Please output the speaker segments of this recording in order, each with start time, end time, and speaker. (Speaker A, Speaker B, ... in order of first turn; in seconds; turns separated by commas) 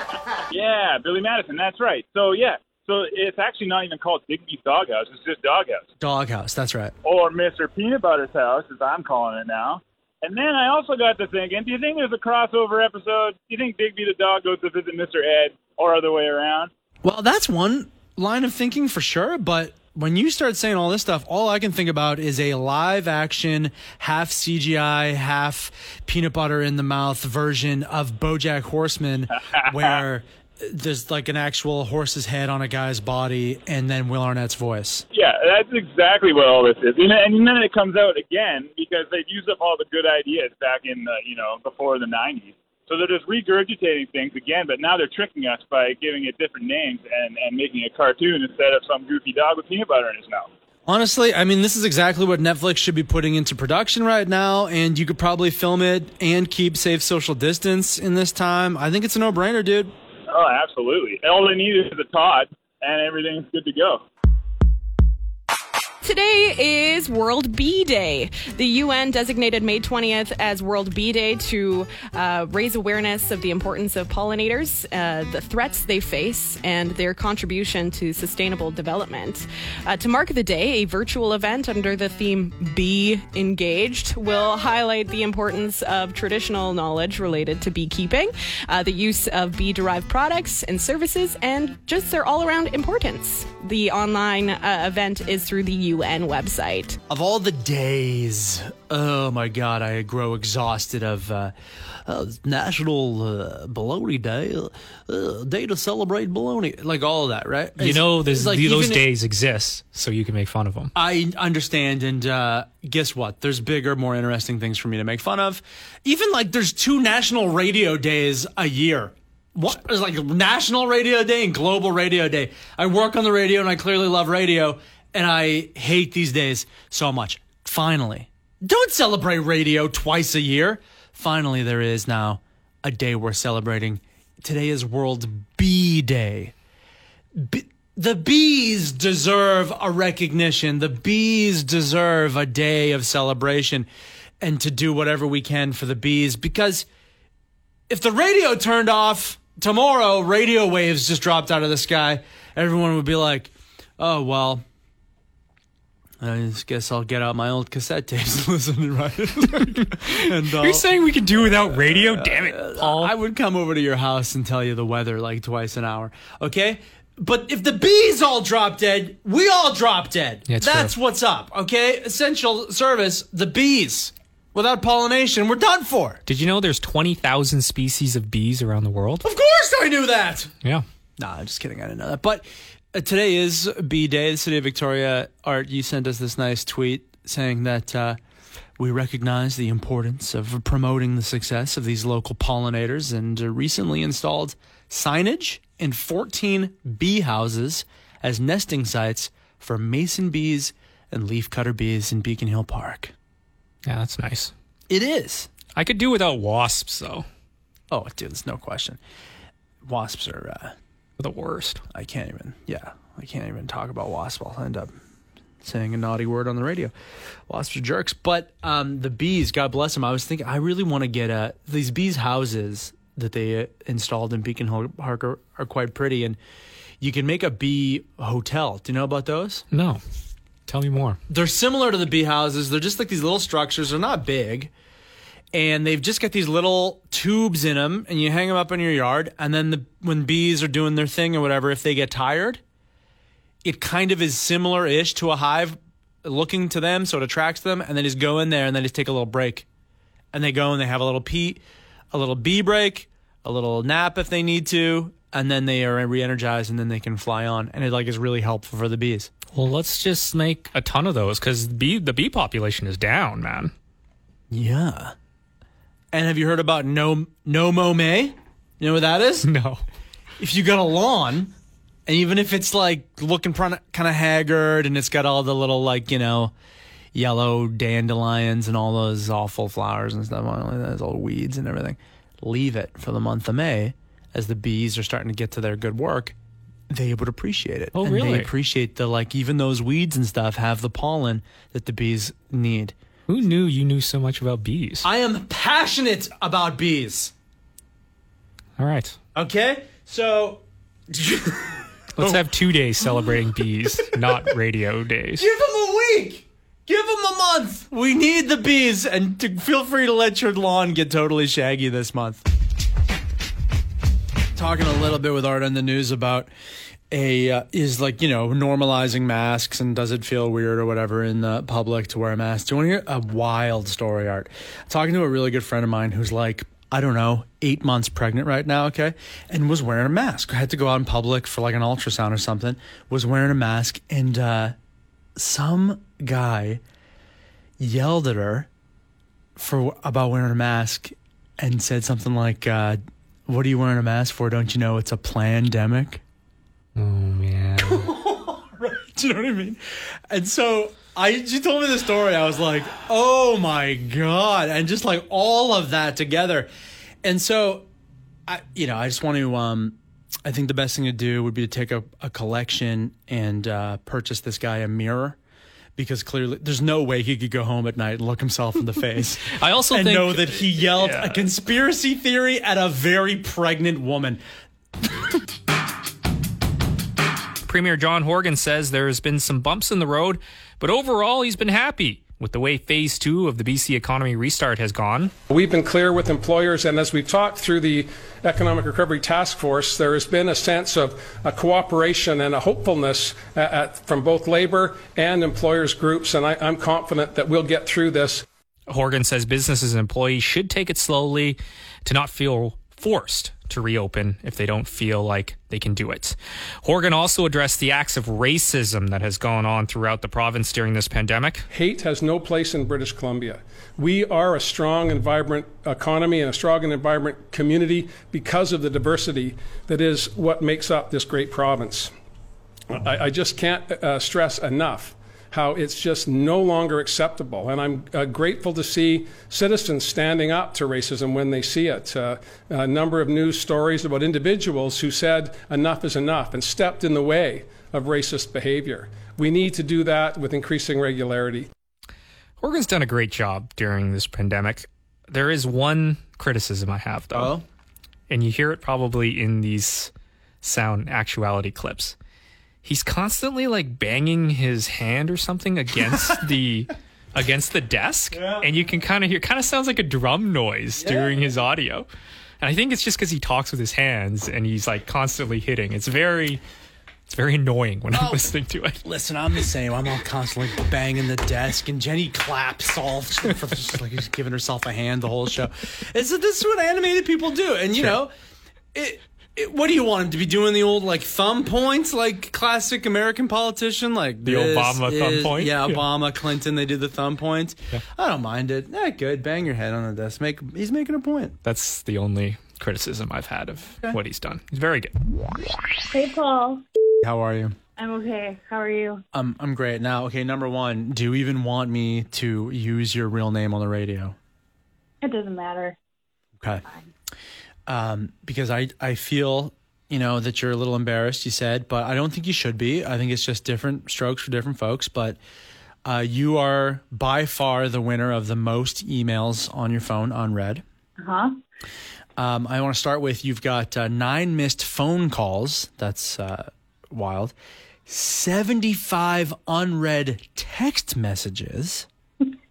Speaker A: 0.5-5.8, Speaker B: 6.0-6.9, Speaker A: 7.0-16.7, Speaker B: 17.0-35.1, Speaker A: 35.1-50.5, Speaker B: 50.9-59.9, Speaker A: 60.3-64.0, Speaker C: 66.0-97.0, Speaker B: 97.1-109.0, Speaker D: 107.8-110.9, Speaker B: 111.0-136.5, Speaker B: 137.3-143.9, Speaker B: 144.4-146.9, Speaker B: 147.9-154.6, Speaker B: 156.2-176.2, Speaker D: 159.9-163.1, Speaker D: 170.5-170.9, Speaker D: 176.3-179.2, Speaker B: 179.2-180.5, Speaker B: 181.2-188.2, Speaker B: 188.8-203.1, Speaker D: 203.9-204.5, Speaker B: 204.9-205.5, Speaker D: 205.7-207.3, Speaker B: 207.9-209.0, Speaker B: 209.8-210.8, Speaker D: 211.2-211.8, Speaker B: 211.9-215.0, Speaker B: 215.6-216.9, Speaker B: 217.5-226.4, Speaker B: 227.0-229.6, Speaker D: 229.7-230.0, Speaker D: 230.7-231.2, Speaker B: 231.3-234.7, Speaker B: 235.5-242.6, Speaker B: 243.6-249.7, Speaker B: 250.3-259.3, Speaker D: 259.6-263.7, Speaker B: 264.5-265.1, Speaker B: 266.1-269.5, Speaker D: 269.4-269.8, Speaker B: 270.4-271.5, Speaker B: 272.1-276.5, Speaker B: 277.1-286.4, Speaker B: 286.9-292.9, Speaker D: 287.9-288.5, Speaker D: 293.3-295.1, Speaker B: 295.0-297.3, Speaker D: 298.8-299.2, Speaker B: 299.4-304.6, Speaker D: 302.2-305.5, Speaker B: 305.4-312.4, Speaker B: 314.6-316.5, Speaker B: 317.1-334.8, Speaker B: 335.4-336.8, Speaker B: 337.8-338.7, Speaker B: 339.6-346.2, Speaker D: 347.0-348.1, Speaker B: 347.8-356.7, Speaker B: 357.2-357.9, Speaker B: 358.5-365.4, Speaker B: 366.0-374.4, Speaker D: 369.5-371.5, Speaker D: 377.6-385.3, Speaker E: 385.5-398.4, Speaker D: 398.9-411.6, Speaker E: 411.7-422.1, Speaker E: 422.9-441.7, Speaker D: 442.6-447.6, Speaker B: 447.3-447.6, Speaker D: 448.3-452.1, Speaker D: 452.8-462.1, Speaker B: 458.3-458.9, Speaker B: 461.0-461.6, Speaker D: 462.6-466.6, Speaker D: 467.3-469.0, Speaker B: 468.1-468.5, Speaker B: 469.0-478.3, Speaker B: 478.9-491.6, Speaker D: 484.4-486.0, Speaker D: 491.6-495.1, Speaker F: 496.1-496.8, Speaker B: 497.2-497.8, Speaker F: 498.0-499.2, Speaker B: 499.3-504.4, Speaker F: 505.2-506.0, Speaker B: 507.9-515.4, Speaker B: 516.0-520.8, Speaker F: 521.2-521.6, Speaker B: 522.4-527.5, Speaker B: 528.1-532.1